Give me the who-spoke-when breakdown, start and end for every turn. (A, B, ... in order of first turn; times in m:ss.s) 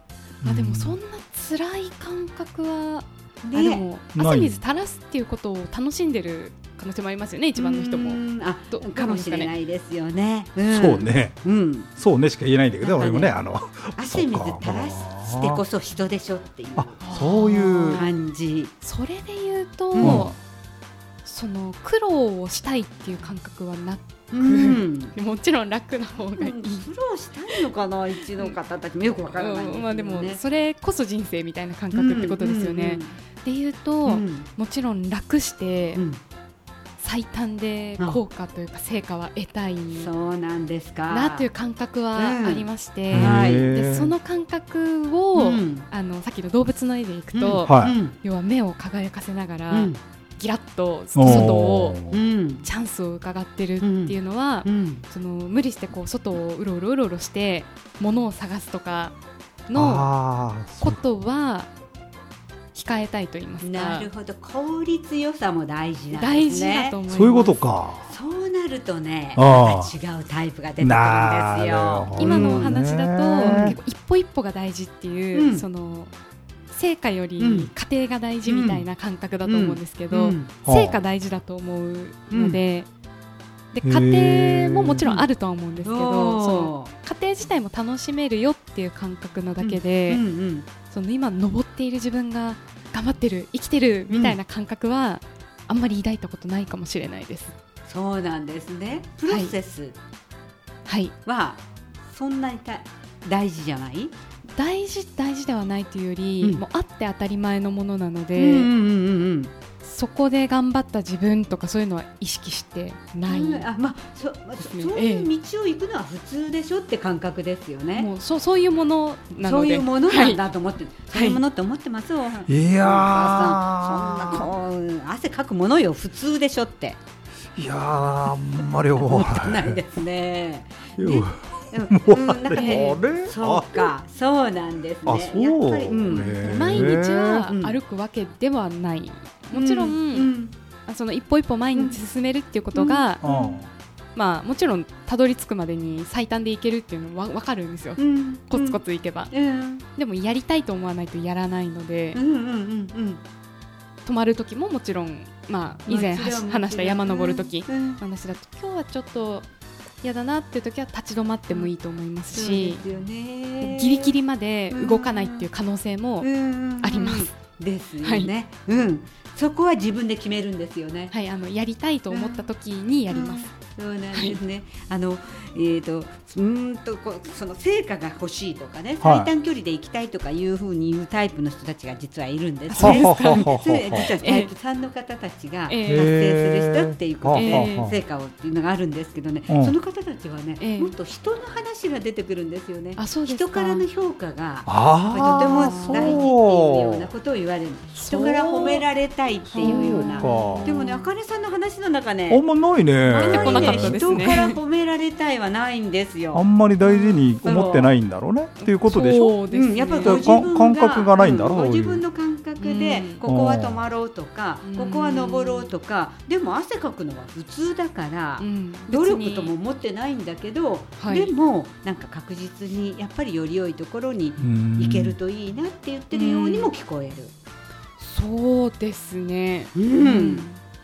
0:00.4-0:01.0 A
0:00.4-0:09.5 B
0:03.4-0:03.8 C
0:04.1-0:04.6 A
0:07.5-0:11.9 C
0:10.6-0:11.4 A
0:11.9-0:15.6 A
0:12.8-0:13.3 C
0:13.9-0:17.0 C
0:16.8-0:18.1 A
0:17.0-0:18.1 B
0:17.9-0:18.7 C
0:18.8-0:20.4 B
0:19.9-0:20.3 C
0:20.0-0:20.3 A
0:21.2-0:26.9 B
0:24.3-0:25.2 C
0:26.4-0:30.4 C
0:28.2-0:28.6 B
0:29.3-0:36.0 B
0:31.9-0:33.1 C
0:34.0-0:34.5 C
0:37.0-0:40.1 B
0:40.0-0:41.5 C
0:41.1-0:52.0 B
0:42.1-0:43.7 C
0:43.1-0:44.1 A
0:45.3-0:45.9 C
0:47.3-0:48.2 C
0:47.6-0:47.9 A
0:49.7-0:50.0 C
0:51.1-0:52.2 A
0:52.1-0:52.6 C
0:52.6-0:59.1 B
0:53.8-0:55.0 C
0:59.7-1:00.1 B
0:59.7-1:01.0 A
1:00.8-1:01.7 B
1:02.7-1:04.1 B
1:03.6-1:07.0 C
1:06.1-1:07.7 B
1:07.1-1:08.0 A
1:08.1-1:12.7 C
1:09.4-1:09.9 A
1:10.8-1:13.8 A
1:12.2-1:16.1 B
1:13.4-1:13.8 C
1:15.3-1:15.6 C
1:16.7-1:22.9 B
1:17.4-1:17.7 C
1:18.4-1:18.8 C
1:19.4-1:20.5 C
1:20.6-1:21.0 A
1:22.3-1:22.6 C
1:23.7-1:30.2 B
1:23.8-1:25.0 A
1:25.0-1:25.2 C
1:25.8-1:26.9 C
1:29.6-1:30.7 C
1:30.8-1:37.5 B
1:34.1-1:34.4 C
1:37.8-1:39.9 C
1:39.3-1:39.6 B
1:40.9-1:41.1 B
1:41.2-1:44.1 C
1:44.5-1:48.7 B
1:48.4-1:49.5 C
1:49.8-1:53.7 B
1:53.3-1:58.1 C
1:54.6-1:55.3 B
1:57.9-2:00.4 B
1:59.4-2:07.0 C
2:01.1-2:01.4 B
2:02.5-2:04.5 A
2:07.6-2:09.8 A
2:09.0-2:17.8 C
2:11.0-2:13.9 A
2:12.6-2:12.9 B
2:15.0-2:17.4 A
2:16.1-2:20.3 B
2:19.5-2:20.5 C
2:20.8-2:23.2 B
2:21.7-2:22.0 C
2:22.7-2:23.6 C
2:23.2-2:23.7 A
2:24.1-2:29.3 B
2:28.0-2:29.8 C
2:29.9-2:32.2 B
2:32.1-2:33.2 C
2:34.0-2:39.5 B
2:35.8-2:38.0 C
2:40.0-2:42.8 B
2:42.3-2:44.2 C
2:43.6-2:47.3 B
2:44.7-2:45.5 C
2:46.2-2:51.1 C
2:48.0-2:48.3 B
2:51.1-2:53.6 B
2:52.1-2:52.5 C
2:53.1-3:22.4 C
2:54.1-2:54.4 B
2:59.0-2:59.3 A
3:02.7-3:03.5 B
3:02.8-3:04.1 A
3:04.0-3:04.5 B
3:05.7-3:06.1 B
3:05.8-3:07.9 A
3:07.3-3:07.9 B
3:09.5-3:09.7 A
3:10.6-3:10.9 B
3:13.0-3:13.8 B
3:14.7-3:17.1 A
3:15.5-3:16.2 B
3:18.0-3:18.8 A
3:18.0-3:18.4 B
3:19.5-3:20.8 A
3:19.6-3:21.1 B
3:22.3-3:24.3 A
3:23.0-3:26.4 C
3:23.2-3:24.6 B
3:26.3-3:29.4 A
3:26.8-3:27.3 B
3:27.4-3:28.0 C
3:28.6-3:30.2 B
3:29.5-3:47.3 C
3:30.0-3:32.0 A
3:32.6-3:33.2 B
3:33.2-3:33.8 A
3:34.6-3:35.7 B
3:38.4-3:39.5 B
3:41.0-3:41.3 B
3:44.4-3:45.2 A
3:46.1-3:46.7 B
3:48.0-3:50.6 B
3:49.7-3:50.5 C